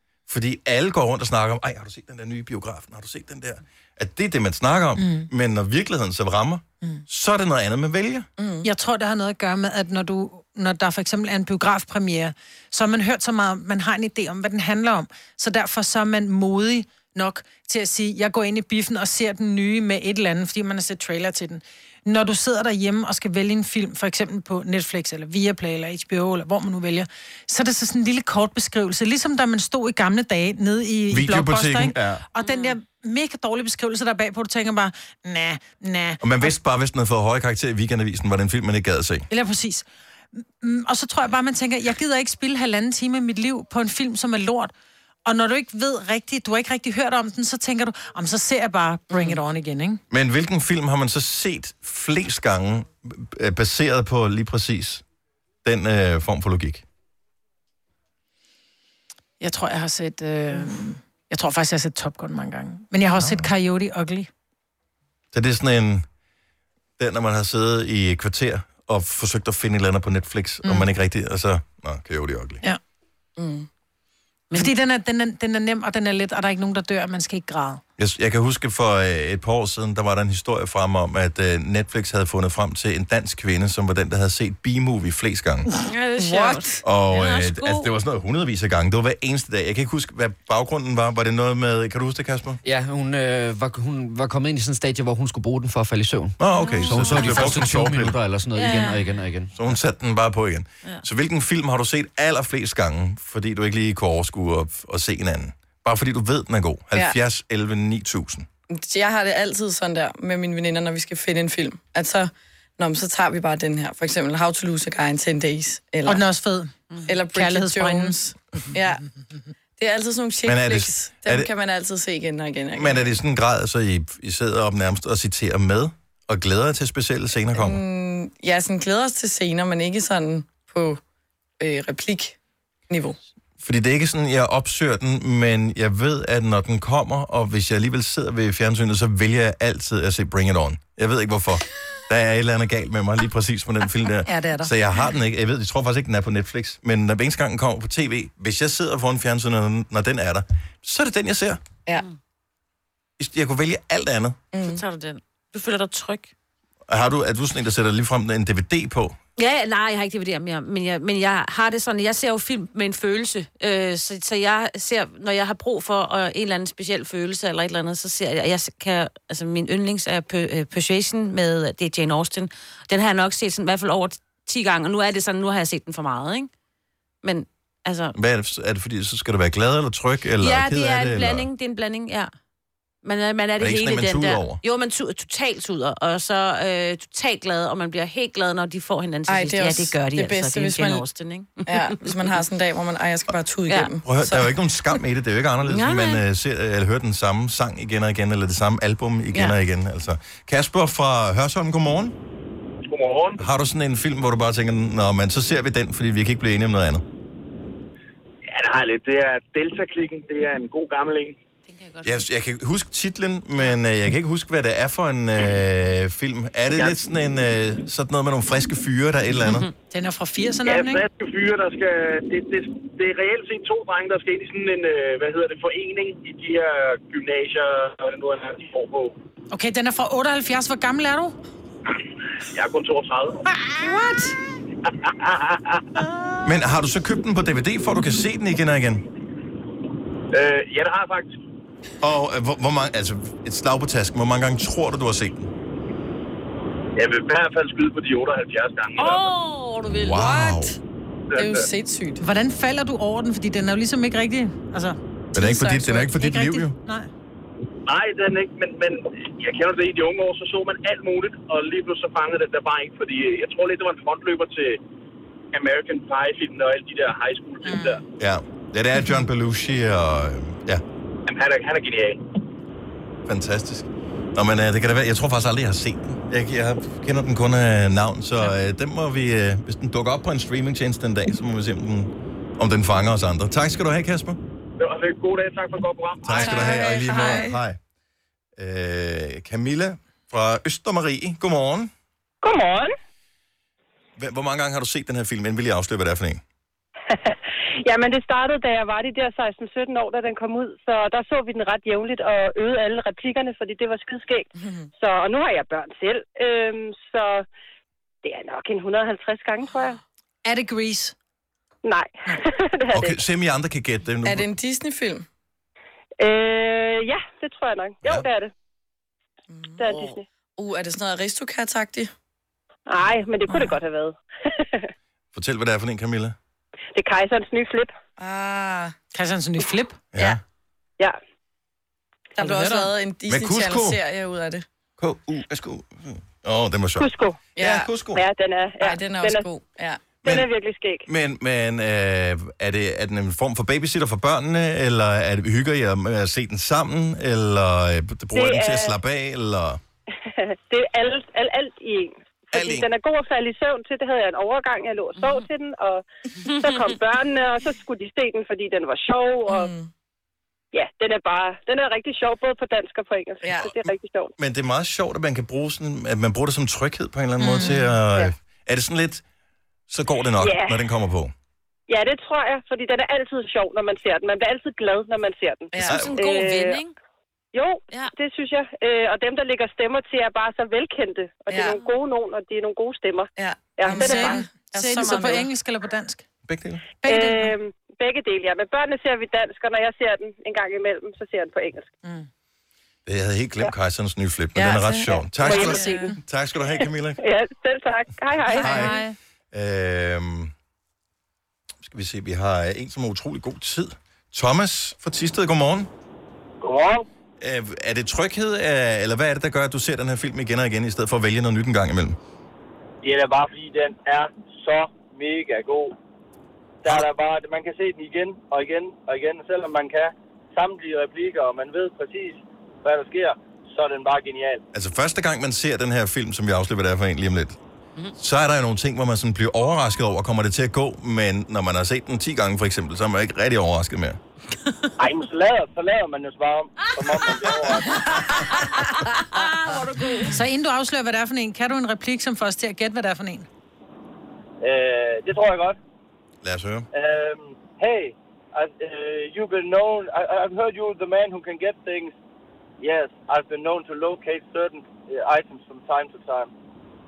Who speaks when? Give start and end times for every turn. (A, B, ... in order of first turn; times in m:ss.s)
0:00.3-0:08.3 A
0:05.0-0:05.3 B
0:08.4-0:08.7 C
0:08.6-0:36.5 B
0:31.1-0:32.2 A
0:32.4-0:32.8 D
0:36.2-0:39.3 A
0:39.3-0:39.8 B
0:40.6-0:44.7 B
0:45.2-0:50.0 B
0:49.1-0:49.4 C
0:50.1-0:55.0 A
0:55.6-0:56.8 A
0:59.4-1:04.3 B
1:05.3-1:06.0 A
1:07.0-1:12.6 A
1:10.6-1:10.9 B
1:13.4-1:13.7 C
1:14.5-1:17.8 B
1:18.0-1:25.7 A
1:25.8-1:26.8 C
1:26.2-1:27.9 D
1:26.8-1:32.6 A
1:32.6-1:39.5 E
1:36.4-1:38.2 A
1:36.6-1:37.7 D
1:38.5-1:39.1 D
1:39.5-1:48.5 A
1:48.7-1:56.2 C
1:56.0-1:58.2 B
1:57.0-1:59.0 C
1:59.8-2:03.1 C
2:00.4-2:01.5 A
2:02.7-2:07.8 A
2:07.5-2:11.0 C
2:11.6-2:12.4 C
2:12.9-2:13.2 C
2:13.6-2:31.6 A
2:24.2-2:24.7 B
2:33.2-2:34.4 A
2:34.5-2:34.8 C
2:34.6-2:36.3 D
2:36.9-2:39.2 A
2:39.4-2:56.5 D
2:57.2-2:58.1 D
2:58.2-3:01.5 A
3:00.4-3:02.3 D
3:03.0-3:12.3 D
3:03.6-3:04.6 A
3:09.3-3:11.0 C
3:11.6-3:14.6 C
3:14.0-3:22.1 A
3:15.6-3:16.2 D
3:22.9-3:23.4 F
3:23.4-3:27.0 A
3:28.5-3:31.4 F
3:31.7-3:32.2 D
3:32.0-3:39.7 A
3:36.7-3:37.0 F
3:39.9-3:41.0 B
3:40.6-3:49.1 F
3:49.5-3:51.4 B
3:52.5-3:53.4 F
3:53.6-3:54.3 B
3:55.0-3:56.0 F
3:56.4-3:59.0 A
4:00.3-4:01.4 F
4:02.0-4:05.5 A
4:07.0-4:09.3 F
4:09.0-4:10.3 D
4:09.9-4:10.8 A
4:10.0-4:10.8 C
4:11.3-4:11.6 F
4:11.4-4:12.2 C
4:12.2-4:15.0 B
4:15.3-4:16.7 A
4:15.4-4:16.1 C
4:16.0-4:17.1 B
4:17.8-4:24.8 F
4:25.5-4:28.0 F
4:27.6-4:28.0 B
4:28.2-4:30.8 A
4:31.3-4:32.2 F
4:33.3-4:44.4 A
4:44.8-4:47.1 F
4:46.2-4:47.8 A
4:46.3-4:47.6 C
4:48.6-4:51.9 A
4:52.4-4:52.9 G
4:54.2-4:56.4 A
4:57.1-5:07.4 G
5:04.6-5:04.9 C
5:08.2-5:10.0 G
5:10.4-5:11.1 B
5:11.8-5:13.2 G
5:12.9-5:14.5 A
5:14.2-5:15.2 C
5:16.2-5:18.5 G
5:19.5-5:22.1 C
5:19.8-5:20.2 G
5:22.9-5:24.9 G
5:23.5-5:23.8 C
5:25.3-5:26.4 A
5:26.9-5:27.9 G
5:28.2-5:28.9 C
5:29.1-5:30.0 B
5:30.1-5:30.4 A
5:32.4-5:34.6 C
5:32.4-5:32.9 B
5:33.3-5:34.0 A
5:35.0-5:38.2 A
5:37.0-5:37.4 G
5:37.6-5:38.0 C
5:38.1-5:39.4 G
5:38.8-5:40.2 C
5:40.2-5:40.5 A
5:40.2-5:41.1 G
5:41.0-5:49.8 A
5:48.3-5:49.0 G
5:50.2-5:59.7 G
5:52.5-5:52.9 A
5:55.2-5:55.5 D
5:56.4-5:56.9 D
5:59.5-5:59.9 C
6:00.7-6:04.3 G
6:03.4-6:03.8 C
6:04.4-6:09.2 A
6:07.4-6:08.0 B
6:09.9-6:11.3 A
6:10.4-6:10.8 G
6:11.9-6:16.8 G
6:15.7-6:16.0 C
6:15.8-6:16.9 D
6:15.8-6:16.2 A
6:17.5-6:24.4 G
6:21.5-6:21.8 C
6:23.4-6:25.5 C
6:23.9-6:26.2 B
6:26.5-6:26.8 A
6:27.0-6:27.6 B
6:27.0-6:31.9 G
6:33.0-6:37.2 A
6:34.5-6:36.1 C
6:35.4-6:36.0 G
6:35.6-6:36.1 B
6:37.2-6:38.9 G
6:38.5-6:39.0 A
6:38.6-6:39.1 D
6:38.6-6:39.1 B
6:39.5-6:40.5 A
6:41.8-6:45.9 A
6:46.6-6:47.0 H
6:47.4-6:52.2 A
6:53.0-6:55.9 H
6:56.8-7:04.6 H
7:04.7-7:07.6 A
7:08.2-7:14.2 A
7:15.0-7:18.0 H
7:20.2-7:23.5 B
7:24.6-7:25.8 H
7:26.4-7:26.8 A
7:26.9-7:32.1 H
7:32.8-7:36.5 H